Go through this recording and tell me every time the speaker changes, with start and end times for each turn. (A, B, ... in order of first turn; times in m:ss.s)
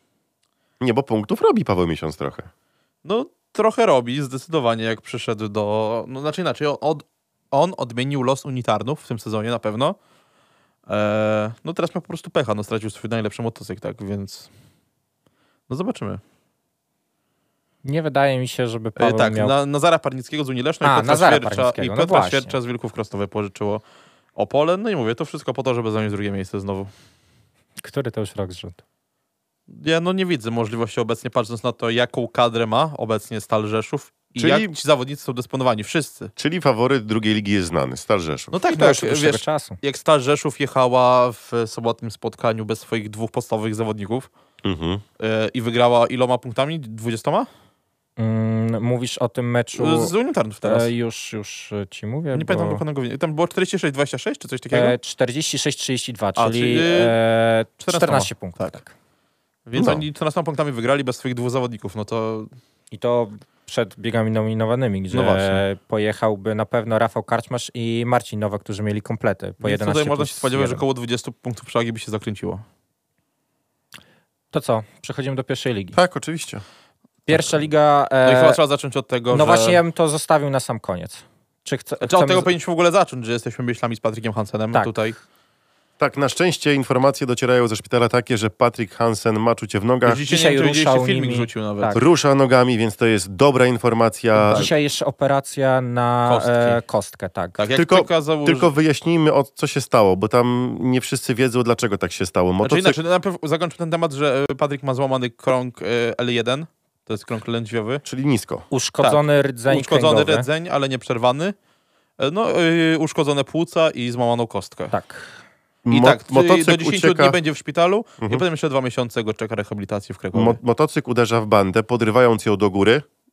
0:00.8-0:02.5 A
0:03.0-0:10.0 B
0:10.9-0:14.5 B
0:15.7-0:16.2 B
0:17.8-0:19.5 C
0:19.0-0:23.8 B
0:20.8-0:22.5 C
0:24.4-0:26.9 B
0:27.8-0:28.8 C
0:29.7-0:36.3 B
0:34.4-0:34.7 A
0:36.4-0:38.6 A
0:38.5-0:44.3 B
0:38.7-0:39.8 C
0:44.6-0:45.0 A
0:45.2-0:47.5 B
0:48.2-0:52.8 C
0:49.8-0:50.9 B
0:52.3-0:55.0 B
0:54.7-0:58.9 C
0:56.4-0:57.1 B
0:57.8-0:58.8 B
0:59.7-1:02.5 B
0:59.7-1:00.0 A
1:02.9-1:10.8 C
1:05.1-1:05.6 B
1:09.6-1:12.6 B
1:14.5-1:16.0 C
1:15.9-1:16.6 A
1:17.3-1:18.6 C
1:18.2-1:19.8 B
1:19.3-1:22.5 C
1:22.0-1:25.2 B
1:26.0-1:30.2 A
1:30.0-1:31.9 B
1:30.2-1:32.0 C
1:31.9-1:34.7 A
1:34.4-1:37.6 C
1:36.2-1:36.8 B
1:37.6-1:38.7 B
1:37.7-1:43.0 A
1:42.6-1:48.0 B
1:48.0-1:48.6 A
1:48.7-1:50.5 C
1:49.0-1:51.5 B
1:52.2-1:54.9 B
1:54.9-1:55.4 C
1:55.8-1:57.4 A
1:55.9-2:00.6 B
2:00.3-2:03.0 A